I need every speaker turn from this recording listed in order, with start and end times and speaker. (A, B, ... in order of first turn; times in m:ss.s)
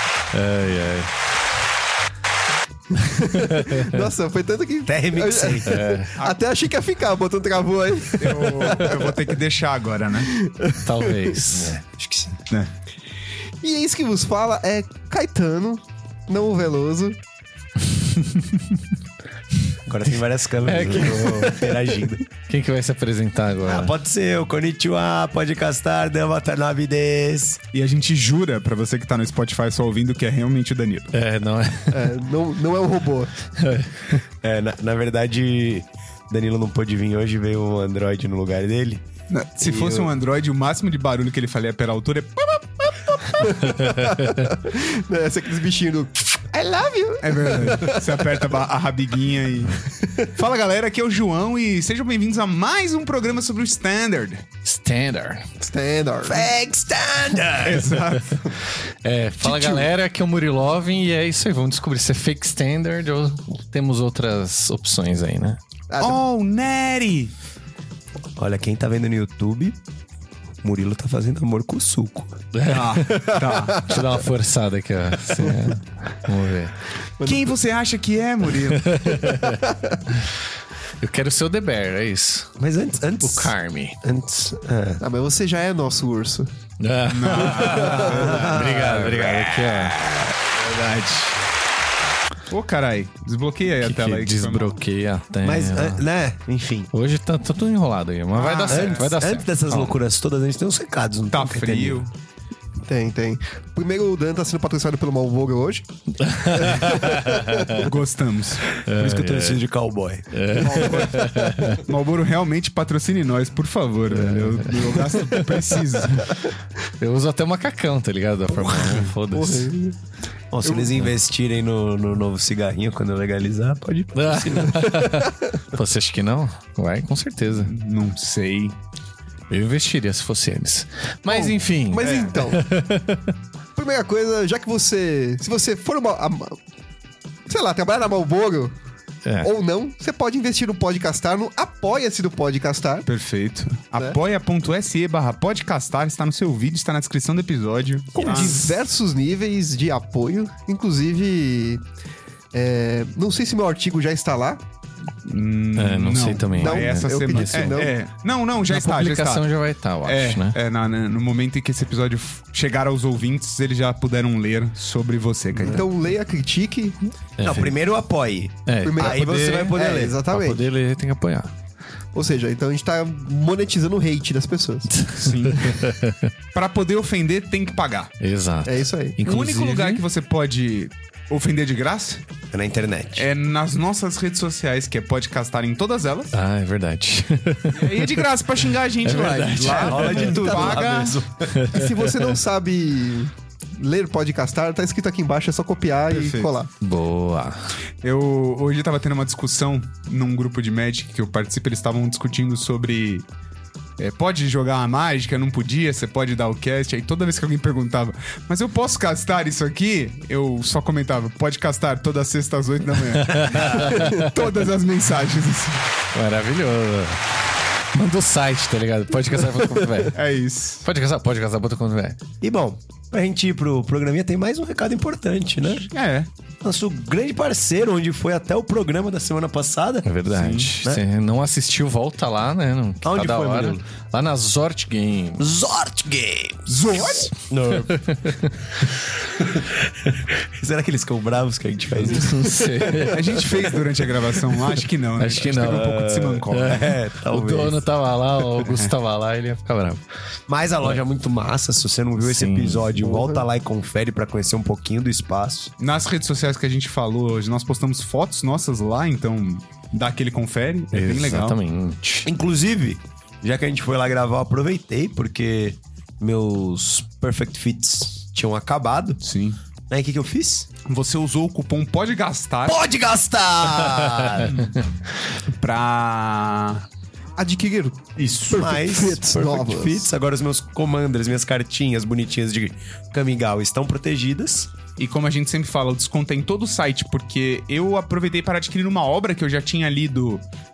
0:00.3-0:01.1 A
0:02.9-0:09.2 B
0:03.4-0:04.0 A
0:04.8-0:05.8 C
0:05.6-0:06.1 A
0:08.2-0:10.3 D
0:10.2-0:11.4 B
0:10.8-0:11.8 A
0:11.6-0:12.4 C
0:13.6-0:17.2 B
0:18.0-0:18.6 A
0:19.8-0:22.2 C
0:20.6-0:21.7 A
0:22.5-0:23.9 A
0:23.7-0:27.6 C
0:27.7-0:31.1 D
0:31.1-0:32.1 A
0:31.9-0:33.4 B
0:33.6-0:34.2 A
0:34.4-0:39.0 C
0:39.3-0:43.8 D
0:39.6-0:40.1 C
0:43.4-0:48.2 B
0:43.6-0:44.5 A
0:47.2-0:54.4 D
0:54.6-0:55.5 A
0:55.6-0:56.5 B
0:56.2-0:58.2 C
0:57.6-0:58.5 D
0:59.0-1:05.6 A
0:59.4-0:59.9 B
1:05.9-1:06.2 B
1:06.0-1:07.3 D
1:08.4-1:09.8 C
1:10.6-1:12.4 C
1:12.5-1:16.8 A
1:12.7-1:13.8 D
1:13.1-1:14.0 B
1:15.4-1:15.7 B
1:17.2-1:17.5 B
1:17.2-1:19.1 D
1:18.7-1:20.3 A
1:19.2-1:20.0 B
1:21.0-1:22.6 A
1:22.6-1:25.0 C
1:23.2-1:24.0 A
1:25.0-1:26.5 B
1:26.8-1:30.0 A
1:27.1-1:31.3 D
1:27.6-1:28.4 B
1:28.0-1:29.2 C
1:32.5-1:34.8 D
1:33.8-1:36.0 A
1:35.4-1:36.9 C
1:36.9-1:39.9 A
1:38.3-1:39.1 D
1:38.6-1:42.1 C
1:41.3-1:42.1 D
1:42.8-1:45.9 B
1:46.2-1:47.9 A
1:46.4-1:47.8 B
1:47.7-1:48.7 D
1:48.8-1:49.6 A
1:48.8-1:50.9 C
1:50.3-1:51.8 A
1:50.6-1:51.5 B
1:50.7-1:56.3 D
1:54.1-1:56.2 A
1:57.0-1:59.7 A
1:59.3-2:00.0 B
2:00.5-2:05.0 C
2:04.1-2:07.7 A
2:04.7-2:05.4 B
2:07.6-2:08.8 D
2:09.5-2:13.3 A
2:11.3-2:12.7 B
2:12.0-2:12.4 D
2:13.7-2:16.6 B
2:17.5-2:18.7 B
2:19.2-2:19.5 A
2:19.4-2:23.1 B
2:23.0-2:28.8 D
2:28.2-2:31.8 B
2:32.5-2:34.6 B
2:35.2-2:39.4 D
2:35.8-2:37.9 A
2:36.6-2:37.9 B
2:38.7-2:40.6 A
2:40.0-2:45.8 D
2:45.5-2:45.8 C
2:45.6-2:47.0 B
2:47.4-2:47.8 A
2:47.4-2:50.2 C
2:48.6-2:51.5 A
2:48.8-2:50.6 B
2:52.1-2:54.9 B
2:54.9-2:56.3 A
2:55.2-2:56.0 D
2:56.5-2:58.1 D
2:58.2-3:00.0 A
2:58.6-2:59.2 B
2:59.2-3:02.2 D
3:02.5-3:03.3 C
3:03.2-3:06.3 D
3:06.3-3:08.2 A
3:07.7-3:11.2 D
3:09.0-3:10.4 A
3:09.1-3:11.6 C
3:10.2-3:10.9 B
3:11.5-3:12.2 A
3:11.7-3:16.7 B
3:16.1-3:16.5 D
3:16.8-3:17.7 A
3:18.0-3:23.2 D
3:24.0-3:35.8 D
3:33.1-3:34.3 A
3:33.4-3:34.0 C
3:36.1-3:37.4 A
3:37.9-3:40.2 A
3:39.6-3:39.9 B
3:40.1-3:40.8 D
3:40.8-3:42.2 A
3:42.4-3:45.9 C
3:45.8-3:46.3 D
3:46.6-3:50.1 C
3:50.0-3:55.5 A
3:50.3-3:50.7 D
3:53.0-3:53.8 C
3:55.4-3:56.7 C
3:56.7-3:57.3 D
3:57.4-3:57.9 C
3:57.7-3:58.6 A
3:58.8-4:03.9 C
4:02.0-4:03.4 A
4:03.1-4:06.9 D
4:05.2-4:10.0 A
4:05.6-4:07.8 C
4:08.6-4:08.9 D
4:10.5-4:15.7 C
4:12.2-4:12.9 A
4:13.0-4:13.4 B
4:15.8-4:21.6 D
4:20.9-4:22.3 A
4:22.2-4:29.2 C
4:29.2-4:29.6 D
4:29.9-4:30.7 C
4:30.8-4:32.8 D
4:32.6-4:34.6 C
4:34.4-4:34.8 D
4:35.5-4:36.8 D
4:37.4-4:40.0 B
4:38.2-4:38.5 D
4:38.5-4:44.7 C
4:45.0-4:50.4 D